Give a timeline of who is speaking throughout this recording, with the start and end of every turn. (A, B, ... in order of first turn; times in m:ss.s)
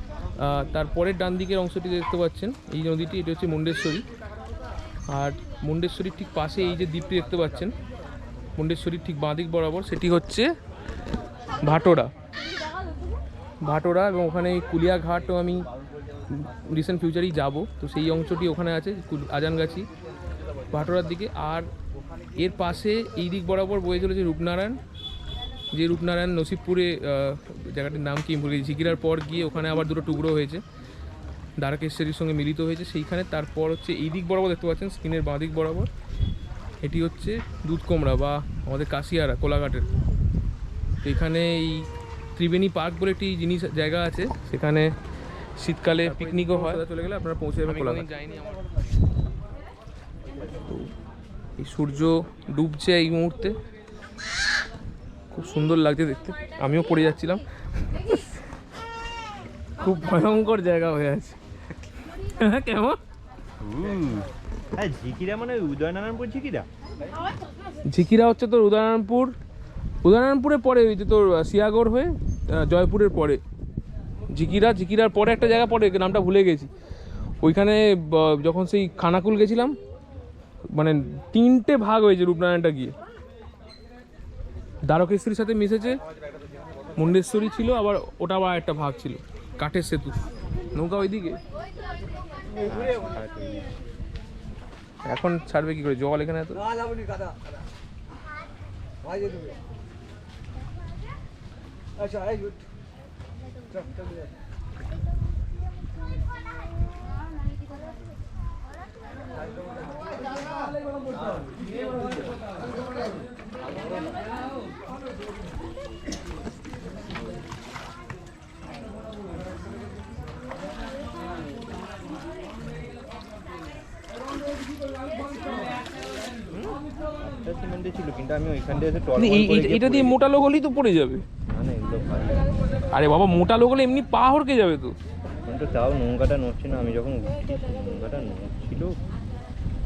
0:00.4-0:04.0 A
0:05.1-0:07.7 A
0:08.6-0:10.5 A
0:11.6-0:12.1 A
0:13.6-0:15.6 A
0:16.3-0:19.9 A
0:20.7-0:21.7 A
0:22.4-0:24.8 A
0:25.7-0:30.6 A
0:31.6-0:35.9 A
0:36.8-0:39.8 A
0:41.0-0:44.9 A
0:45.6-0:48.6 A
0:51.6-0:53.5 A
0:55.3-0:58.2 A
0:59.8-1:01.4 A
1:02.4-1:03.0 A
1:03.6-1:06.7 B
1:07.9-1:09.3 A
1:10.0-1:13.4 A
1:14.3-1:16.7 A
1:17.4-1:19.8 A
1:20.7-1:22.9 A
1:24.9-1:26.0 A
1:27.0-1:31.4 A
1:32.6-1:33.7 B
1:35.1-1:36.6 A
2:07.2-2:10.2 B
2:09.2-2:11.2 A
2:11.5-2:12.4 B
2:12.9-2:14.9 A
2:15.5-2:19.0 B